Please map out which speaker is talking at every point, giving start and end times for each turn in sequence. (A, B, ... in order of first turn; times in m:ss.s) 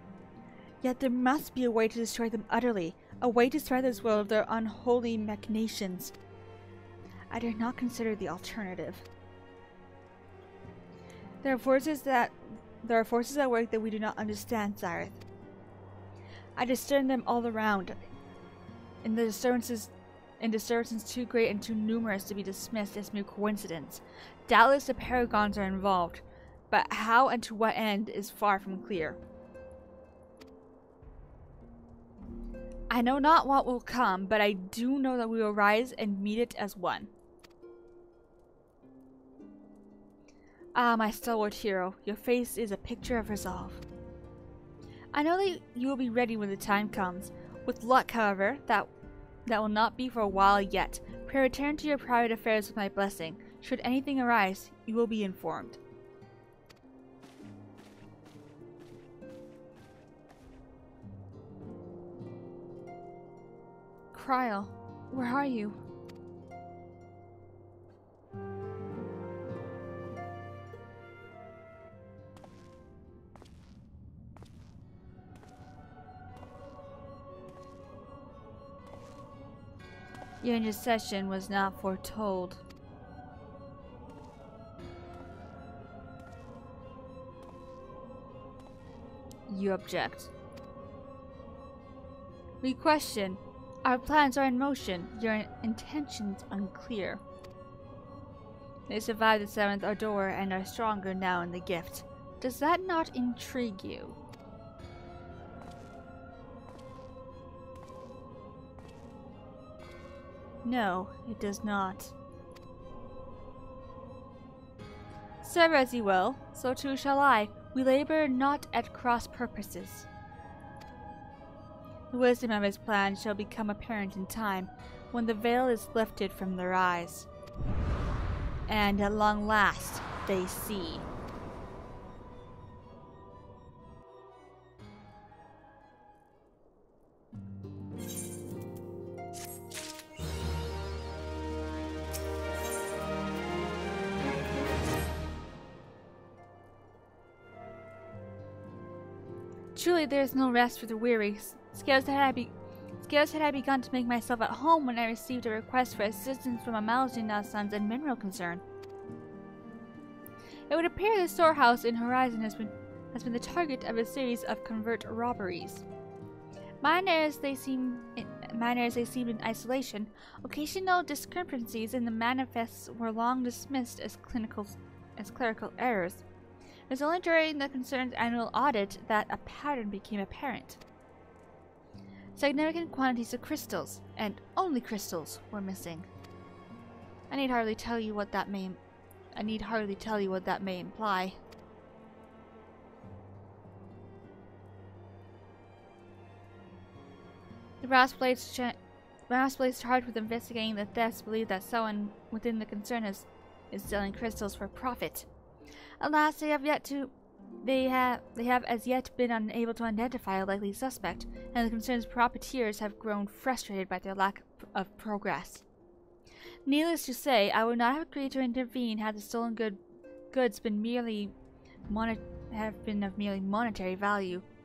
0:00.8-0:06.1 A
0:07.3-0:09.0 A
0:11.4-0:15.2 A
0:16.6-0:18.0 A
0:19.0-0:29.2 A
0:32.9-0:37.1 A
0:40.7-0:43.8 A
0:45.1-0:48.9 A
0:49.4-0:55.8 A
1:04.1-1:05.8 A
1:20.4-1:22.6 A
1:29.5-1:30.3 A
1:32.6-1:37.2 A
1:38.9-1:44.2 A
1:50.6-1:52.1 A
1:55.4-2:00.1 A
2:02.1-2:07.3 A
2:08.7-2:11.1 A
2:29.7-2:38.6 A
2:40.7-2:45.8 A
2:46.8-2:56.2 A
2:56.9-3:00.8 A
3:02.3-3:06.1 A
3:07.3-3:08.8 A
3:09.3-3:11.4 A
3:17.8-3:18.8 A
3:19.3-3:25.3 A
3:26.0-3:35.6 A
3:36.6-3:39.8 A
3:40.3-3:41.3 A
3:41.9-3:44.4 A